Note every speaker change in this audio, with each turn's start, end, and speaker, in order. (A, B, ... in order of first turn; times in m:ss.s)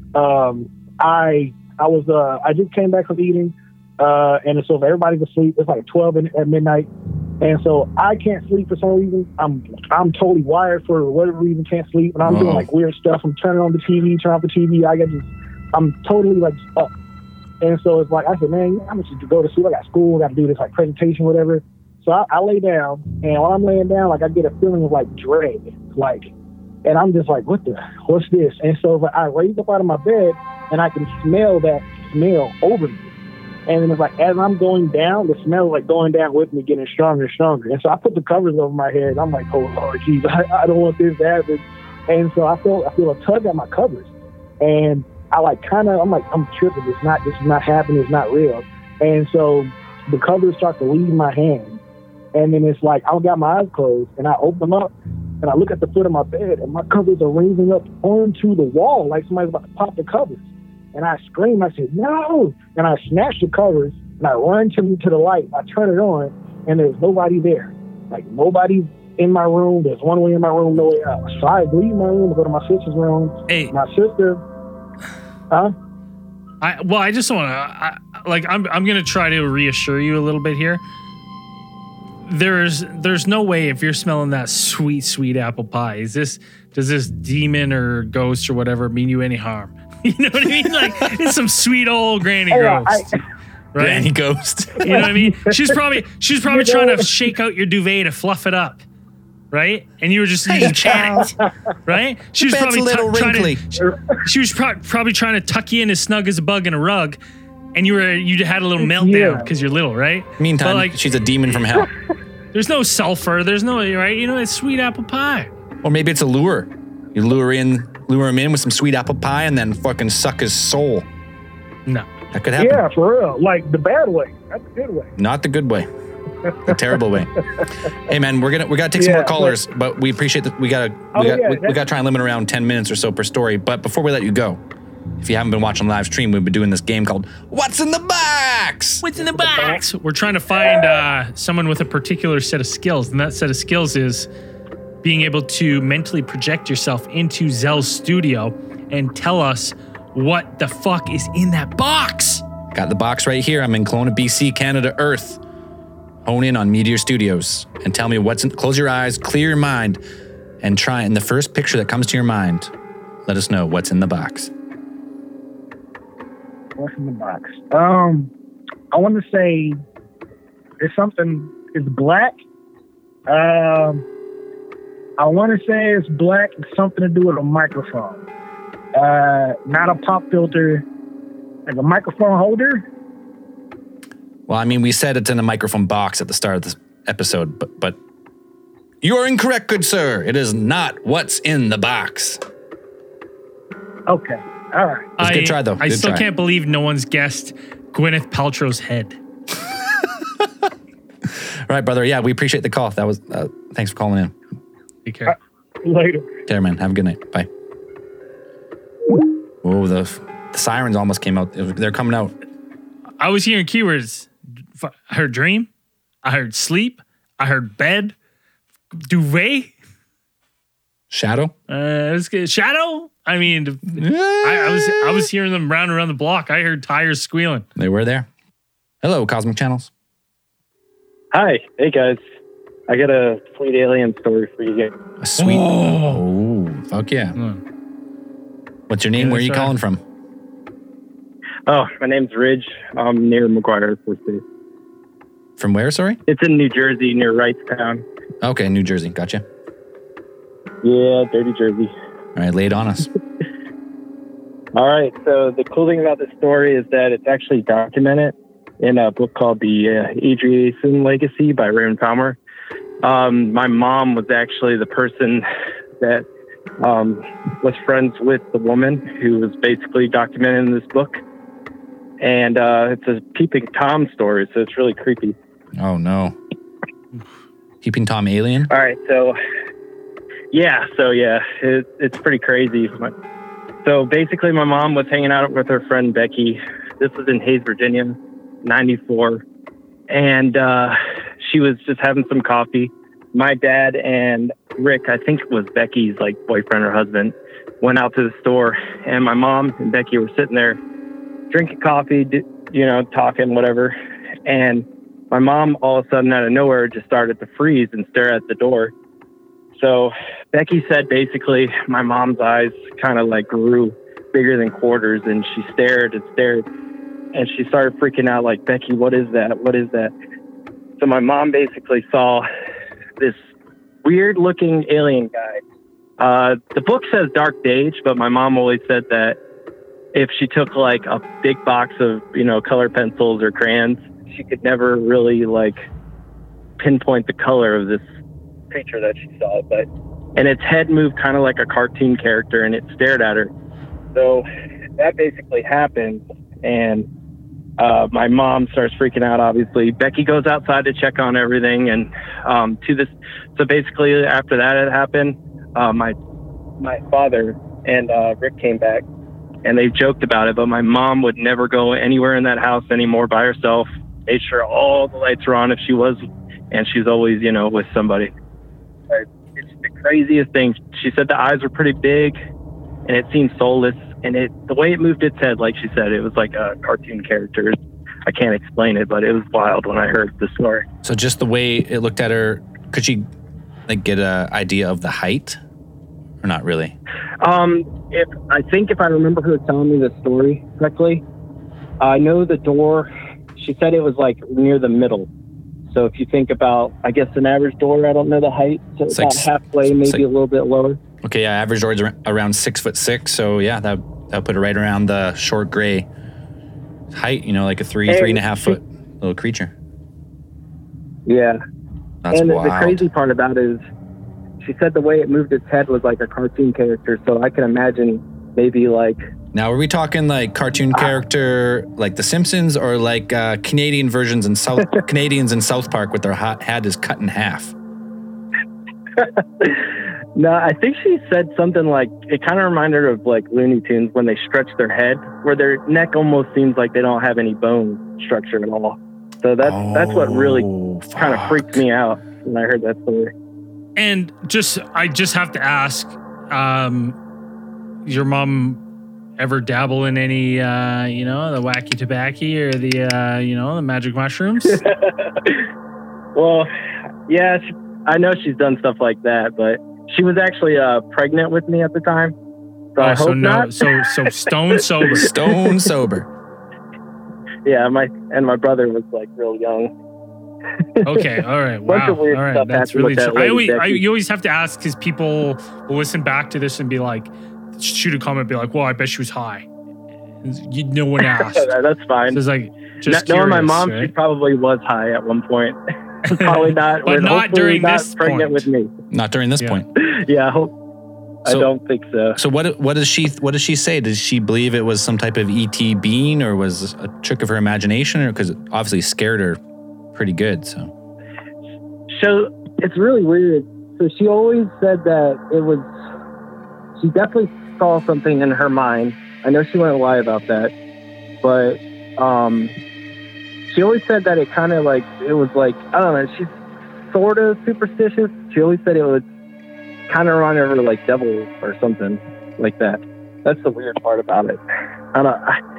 0:00.2-0:06.9 A
0:07.4-0:16.9 A
0:12.2-0:12.7 B
0:17.6-0:26.3 A
0:26.8-0:33.1 A
0:33.7-0:44.1 A
0:44.6-0:51.8 A
0:52.3-0:54.9 A
0:55.4-1:00.4 A
1:00.9-1:14.4 A
1:16.6-1:20.8 C
1:22.2-1:33.1 C
1:32.5-1:33.0 A
1:33.7-1:34.1 C
1:33.8-1:35.0 B
1:34.8-1:38.8 C
1:34.9-1:35.6 A
1:36.4-1:37.0 A
1:39.5-1:47.2 C
1:40.5-1:41.2 B
1:42.4-1:43.6 B
1:47.7-1:51.0 C
1:48.8-1:49.5 A
1:50.4-1:51.9 B
1:52.5-1:55.5 C
1:55.8-2:01.1 B
2:02.3-2:02.8 B
2:02.6-2:05.1 A
2:05.2-2:05.9 B
2:06.6-2:07.3 B
2:08.0-2:14.6 B
2:09.0-2:09.6 A
2:11.1-2:11.8 A
2:15.2-2:19.0 B
2:19.0-2:24.3 C
2:25.0-2:32.4 C
2:32.7-2:35.4 B
2:36.2-2:40.0 B
2:40.6-2:42.7 B
2:43.3-2:44.5 B
2:46.8-2:48.3 A
2:48.9-2:49.8 A
2:50.8-2:52.3 A
2:53.3-2:54.0 A
2:55.2-2:58.2 A
2:58.9-3:00.8 A
3:01.6-3:02.8 A
3:04.5-3:08.0 B
3:09.0-3:12.4 B
3:14.1-3:15.1 A
3:15.2-3:19.2 C
3:15.2-3:16.2 B
3:21.3-3:24.4 B
3:25.0-3:25.4 C
3:25.8-3:26.2 A
3:26.5-3:27.5 B
3:29.6-3:32.3 B
3:33.2-3:35.7 C
3:36.2-3:38.1 C
3:39.1-3:39.7 C
3:41.1-3:41.5 B
3:41.7-3:47.6 C
3:43.9-3:45.2 B
3:47.8-3:48.3 B
3:49.0-3:49.9 B
3:51.3-3:52.2 D
3:52.9-3:54.9 D
3:55.2-3:57.4 B
3:55.4-3:56.2 C
3:58.9-4:00.0 B
3:59.2-3:59.7 C
4:01.7-4:04.4 D
4:05.6-4:06.2 B
4:06.3-4:08.0 D
4:08.4-4:09.4 B
4:10.8-4:11.9 D
4:12.3-4:13.1 B
4:14.7-4:22.4 D
4:23.0-4:25.4 D
4:26.8-4:31.2 D
4:32.2-4:35.4 D
4:35.8-4:36.4 B
4:37.8-4:38.7 B
4:38.7-4:39.4 D
4:40.5-4:43.1 D
4:43.8-4:49.4 D
4:50.1-5:00.8 D
5:01.5-5:08.9 D
5:09.8-5:16.6 D
5:17.3-5:20.1 D
5:21.0-5:22.4 D
5:24.0-5:25.6 D
5:26.2-5:29.4 D
5:30.1-5:35.8 D
5:36.8-5:38.0 D
5:38.7-5:43.5 D
5:44.1-5:44.4 D
5:45.0-5:47.1 D
5:47.8-5:56.2 D
5:56.8-5:59.0 D
5:59.6-6:08.3 D
6:09.1-6:12.4 D
6:13.1-6:20.8 D
6:21.0-6:23.3 B
6:23.9-6:25.6 B
6:26.4-6:27.0 B
6:27.4-6:31.2 D
6:32.0-6:35.3 D
6:35.9-6:41.0 D
6:39.1-6:40.2 B
6:41.2-6:46.1 B
6:47.1-6:49.7 B
6:48.1-6:48.8 D
6:51.2-6:51.6 D
6:52.2-6:53.0 B
6:52.3-6:53.8 D
6:54.6-6:59.2 D
6:59.5-7:07.7 B
7:09.2-7:09.8 D
7:10.4-7:23.3 D
7:19.6-7:21.8 B
7:24.0-7:27.2 C
7:28.0-7:28.8 C
7:29.4-7:34.8 C
7:34.7-7:35.7 D
7:36.3-7:36.7 D
7:37.3-7:42.3 D
7:42.9-7:44.3 D
7:43.0-7:45.3 C
7:45.1-7:46.3 B
7:47.6-7:49.9 D
7:51.0-7:59.7 C
7:51.8-7:54.0 D
8:00.4-8:01.7 C
8:01.3-8:02.4 D
8:02.3-8:04.1 C
8:03.1-8:08.9 D
8:06.3-8:08.6 C
8:09.1-8:09.9 B
8:10.0-8:10.7 D
8:11.4-8:12.4 D
8:12.4-8:19.6 B
8:20.1-8:20.9 B
8:22.1-8:25.9 D
8:27.0-8:30.7 D
8:31.4-8:32.7 D
8:33.7-8:36.5 D
8:37.1-8:39.2 D
8:40.1-8:44.6 D
8:45.1-8:45.6 D